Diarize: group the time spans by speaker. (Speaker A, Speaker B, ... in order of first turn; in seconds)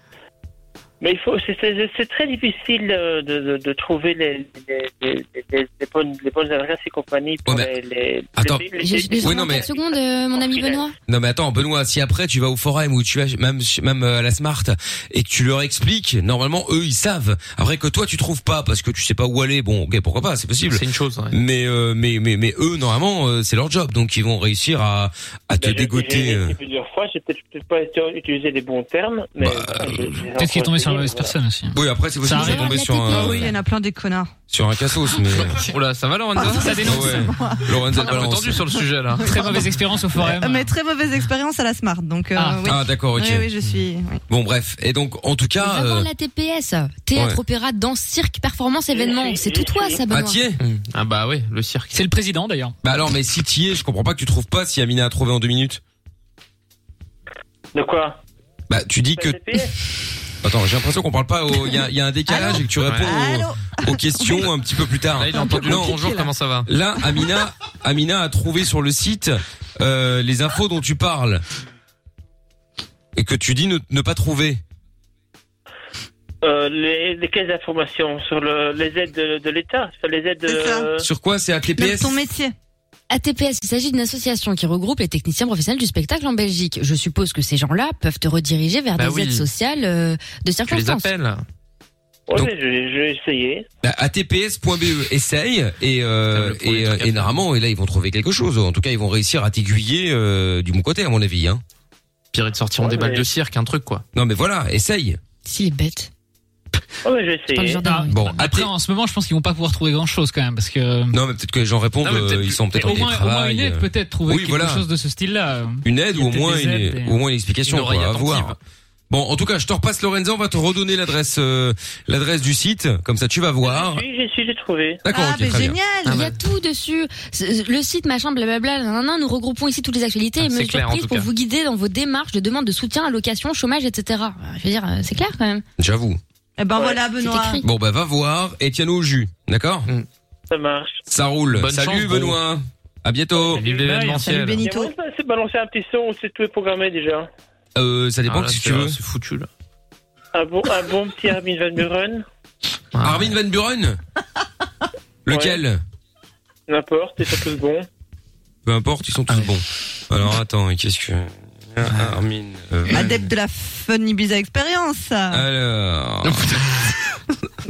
Speaker A: 1.0-10.9, 25.6-31.3, 48.9-50.0, 57.7-58.2, 59.1-59.7, 76.4-81.1, 92.3-93.7, 102.8-103.3, 107.0-107.8, 123.6-125.0, 140.5-141.0, 143.3-143.8, 144.6-147.3, 150.3-152.2, 155.3-155.6, 156.7-157.9
Speaker B: 8.3-8.6, 9.2-9.7, 11.1-26.5, 29.4-30.2, 31.7-33.5, 34.5-35.6, 36.8-38.7, 42.6-43.5, 44.3-46.1, 50.1-50.6, 52.8-55.8, 58.7-59.6, 60.4-66.0, 66.7-71.4, 73.1-74.6, 81.0-82.2, 93.8-101.6, 104.1-105.2, 108.1-108.7, 111.1-114.8, 115.8-118.5, 119.1-124.0, 125.0-125.8, 135.8-136.2, 137.6-139.9, 141.1-143.6, 147.8-148.9, 153.0-154.0, 155.2-155.8, 158.6-163.3, 165.3-166.6
Speaker C: 8.8-10.9, 32.4-33.3, 45.6-50.4, 83.1-91.1, 105.5-106.1, 107.5-108.4, 126.1-135.6, 137.2-137.6
Speaker D: 20.7-21.3, 35.3-37.3, 37.9-39.5, 50.6-51.9, 62.8-63.1, 65.2-66.7, 89.0-89.5, 90.7-91.4, 96.3-97.4, 102.3-104.0, 112.0-113.1, 117.7-118.6, 126.1-126.3, 130.4-131.3, 141.5-142.4, 143.5-144.6, 148.2-149.5, 152.9-153.3, 166.2-166.9
Speaker E: 30.4-32.8, 36.5-37.3, 39.2-40.7, 42.3-42.7, 51.9-52.7, 107.8-111.2, 112.8-117.2, 143.8-144.2
Speaker F: 32.4-34.3, 36.4-44.2, 62.3-64.5, 65.3-66.3, 80.5-80.9, 81.8-82.5, 125.1-126.2, 136.6-137.6, 143.8-144.9, 162.9-165.4